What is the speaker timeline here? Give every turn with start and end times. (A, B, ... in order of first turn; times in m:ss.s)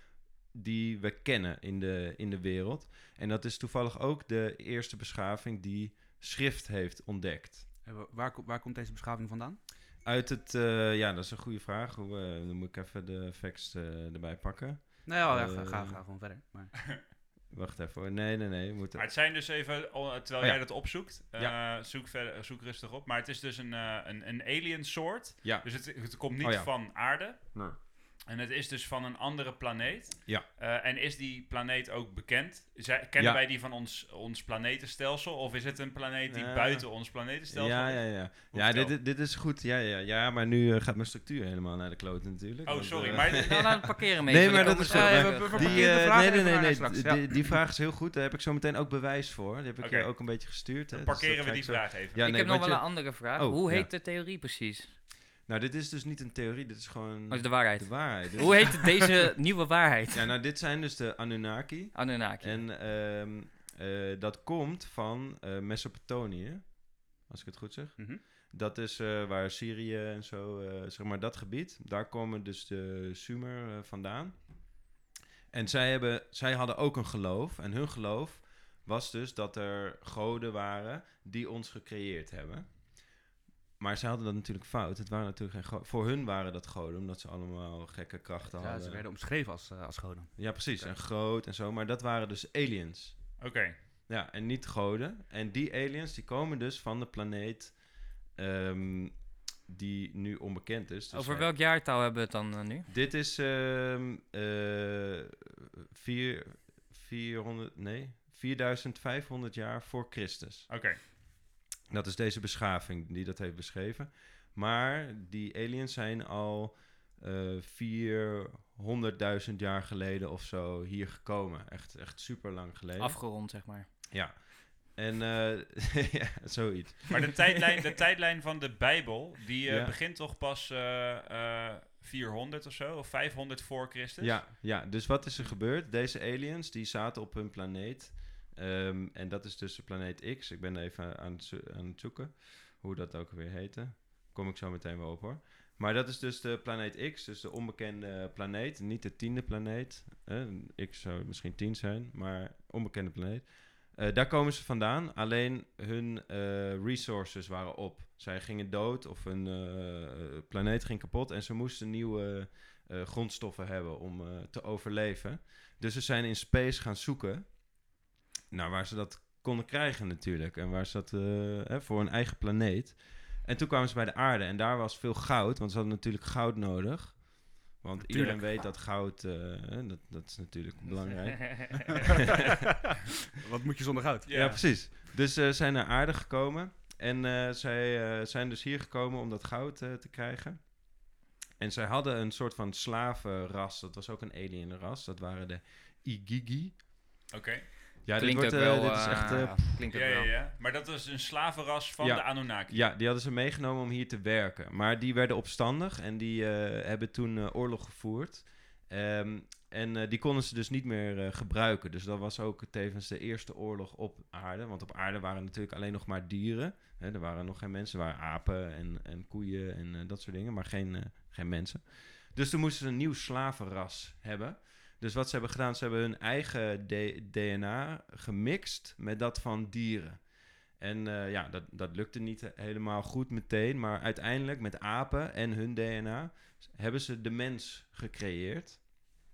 0:00.5-0:07.6 A
0:07.8-0:09.6 B
0:10.0-0:16.0 A
0:15.0-0:16.8 B
0:17.5-0:19.1 A
0:19.0-0:27.6 C
0:20.4-0:21.6 A
0:25.4-0:25.7 A
0:26.4-0:26.7 A
0:28.3-0:39.0 C
0:36.3-0:36.9 A
0:37.5-0:53.9 A
0:42.6-0:44.0 C
0:43.3-0:45.9 D
0:44.5-0:47.6 B
0:49.8-0:52.2 C
0:52.2-0:54.9 D
0:55.5-0:59.1 A
0:57.3-1:00.3 D
1:00.1-1:14.6 A
1:02.0-1:02.6 D
1:15.5-1:22.7 A
1:23.8-1:29.0 A
1:28.6-1:31.0 B
1:30.4-1:33.4 A
1:33.4-1:33.8 C
1:34.1-1:37.8 A
1:38.3-1:41.5 A
1:41.1-1:42.9 D
1:42.9-1:50.7 A
1:50.7-1:51.0 C
1:51.9-2:03.4 A
2:03.0-2:03.9 D
2:04.1-2:07.3 A
2:07.1-2:14.4 C
2:09.7-2:10.0 A
2:14.2-2:47.6 A
2:48.5-3:02.1 A
2:58.0-2:58.4 B
3:03.4-3:04.6 B
3:04.3-3:04.6 C
3:04.3-3:10.9 A
3:11.6-3:16.8 A
3:17.3-3:17.7 C
3:18.0-3:19.8 A
3:18.2-3:20.3 D
3:19.9-3:22.8 C
3:22.0-3:50.2 A
3:50.8-3:58.9 A